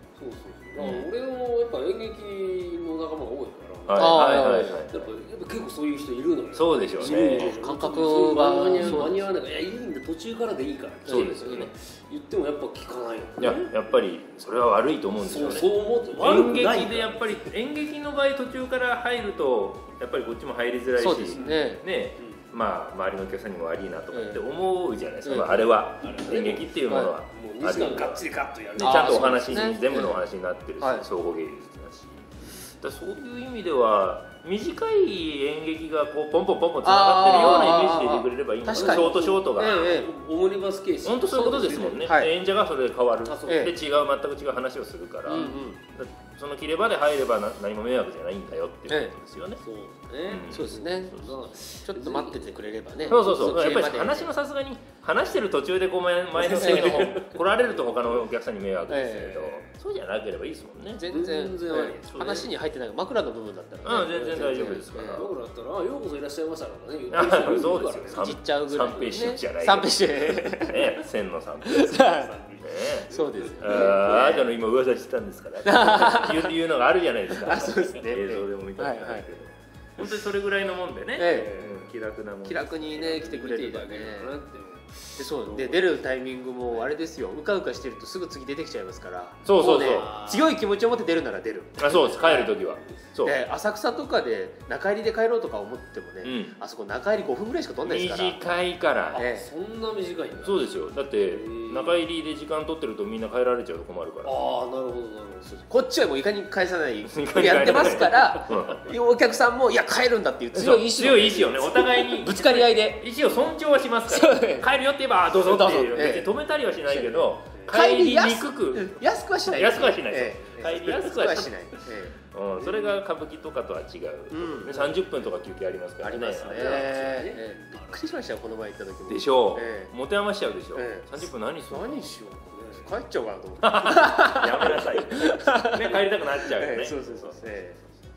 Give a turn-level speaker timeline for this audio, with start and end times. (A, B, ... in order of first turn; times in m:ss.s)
0:00.2-0:13.7 A
0:00.8-0:01.1 B
0:03.9-0:05.1 B
0:04.0-0:04.9 C
0:06.5-0:07.6 B
0:07.0-0:09.1 C
0:08.8-0:09.3 B
0:11.1-0:11.7 C
0:11.1-0:11.7 B
0:13.4-0:40.0 B
0:15.2-0:17.4 A
0:21.0-0:21.8 C
0:21.4-0:21.7 A
0:24.1-0:24.4 C
0:25.2-0:25.5 C
0:26.0-0:29.9 A
0:28.8-0:30.2 C
0:30.8-0:31.1 C
0:36.8-0:40.1 C
0:37.3-0:37.9 A
0:38.7-0:42.1 A
0:41.0-0:49.6 B
0:41.4-0:42.3 C
0:43.2-0:43.7 A
0:43.5-0:43.7 C
0:45.3-0:45.8 C
0:45.3-0:45.6 A
0:48.9-0:49.1 C
0:49.6-0:53.8 A
0:50.3-0:50.8 B
0:50.5-0:54.3 C
0:53.1-1:01.1 B
0:56.4-0:58.2 A
0:56.6-0:57.1 C
0:58.9-0:59.6 C
1:01.0-1:05.3 C
1:01.1-1:02.5 A
1:02.1-1:02.4 B
1:03.8-1:05.3 B
1:04.1-1:09.2 A
1:07.1-1:23.2 B
1:08.1-1:11.0 C
1:11.6-1:12.3 C
1:11.9-1:14.0 A
1:13.1-1:14.5 C
1:15.6-1:16.6 C
1:17.3-1:19.3 C
1:21.2-1:21.6 C
1:21.3-1:21.9 A
1:22.4-1:24.4 C
1:22.9-1:26.0 A
1:25.2-1:32.5 C
1:29.4-1:30.1 B
1:29.6-1:30.6 A
1:31.8-1:33.4 B
1:33.2-1:38.4 C
1:36.2-1:36.6 B
1:37.8-1:39.2 B
1:39.1-1:42.0 A
1:39.2-1:39.5 C
1:40.4-1:44.4 B
1:44.2-1:45.7 A
1:45.7-1:53.0 C
1:47.1-1:48.9 B
1:50.5-2:01.6 B
1:54.1-1:54.7 C
1:55.4-1:56.3 C
1:56.9-2:02.2 C
2:02.2-2:07.2 B
2:02.6-2:03.0 A
2:04.3-2:04.8 C
2:06.0-2:09.9 C
2:06.6-2:08.1 A
2:09.1-2:12.2 B
2:10.7-2:17.8 C
2:12.5-2:12.9 A
2:13.6-2:17.6 B